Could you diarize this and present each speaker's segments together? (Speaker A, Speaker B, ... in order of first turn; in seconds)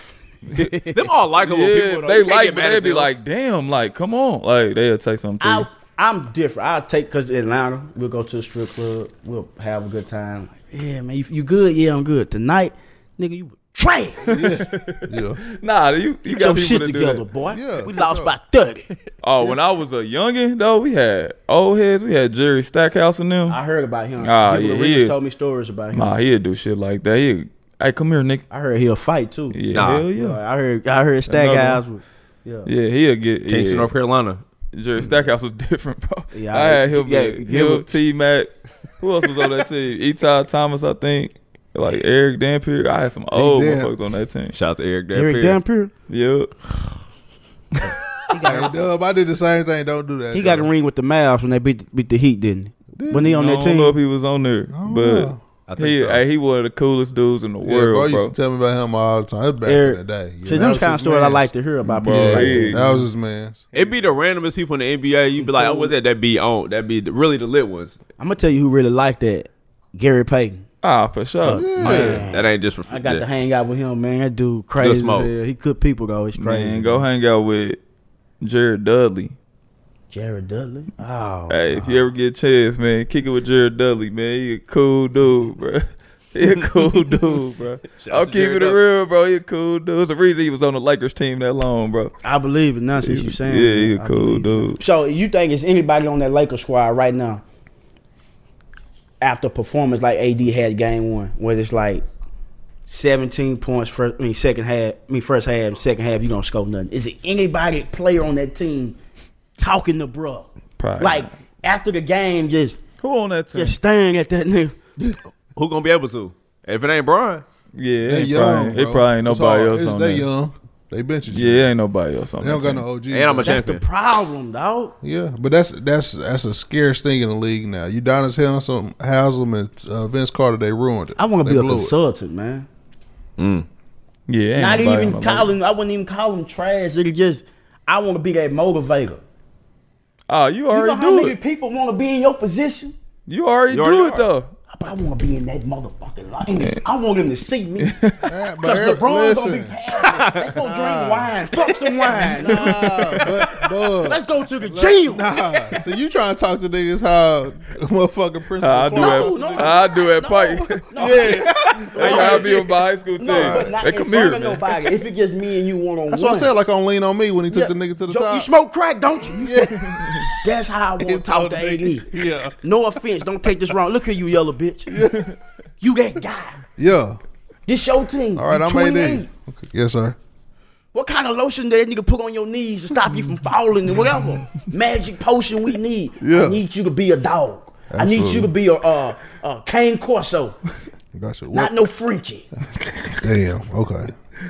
Speaker A: 0.6-3.1, 29.7-30.0, 33.5-34.4, 44.5-45.6, 55.7-56.2, 63.7-68.0, 71.9-73.2, 74.8-75.3, 88.0-88.8, 115.5-117.4, 123.1-123.8, 133.4-133.7, 143.7-144.3, 150.0-150.5, 151.6-152.3
Speaker B: 1.4-5.7, 14.3-17.2, 19.2-23.6, 24.2-25.1, 25.9-28.4, 29.5-30.4, 31.3-31.8, 32.6-33.9, 34.7-44.5, 46.1-46.5, 53.2-58.3, 62.0-63.0, 63.7-64.1, 70.8-72.1, 76.3-77.8, 78.4-79.3, 81.5-92.1, 93.0-94.8, 110.8-111.3, 113.0-113.8, 117.7-120.3, 121.3-122.9, 134.3-135.5, 140.3-141.3, 143.3-144.5, 147.8-148.3, 152.6-153.2, 158.6-161.3, 161.9-164.7
Speaker C: 5.4-14.4, 16.2-18.9, 23.5-26.1, 28.5-32.7, 36.3-38.0, 45.1-45.9, 48.3-48.7, 50.3-54.0, 59.6-63.0, 65.4-65.9, 68.2-70.6, 71.4-77.0, 80.1-82.0, 92.2-97.4, 99.2-102.0, 102.8-109.0, 109.6-110.5, 111.0-112.8, 113.5-114.8, 123.4-125.0, 131.2-132.7, 134.6-139.2, 140.7-142.9, 144.7-147.9, 148.6-153.2, 153.9-155.3, 158.9-166.5, 167.5-172.1, 172.6-174.9, 175.8-176.6, 177.7-179.3, 180.9-190.6, 191.5-192.5
Speaker D: 14.2-15.4, 17.4-18.3, 43.3-43.9, 48.4-50.7, 53.0-53.5, 54.7-55.4, 57.6-63.6, 71.5-72.3, 118.0-121.7, 122.4-123.5, 125.0-131.9, 148.3-149.8, 150.5-151.4, 152.2-159.8, 160.9-162.5, 163.3-163.8, 166.1-168.5, 169.3-170.3, 171.0-172.6, 174.9-175.3, 176.8-177.2, 178.3-180.2, 186.2-186.6, 187.9-188.5, 191.1-191.7, 193.2-194.1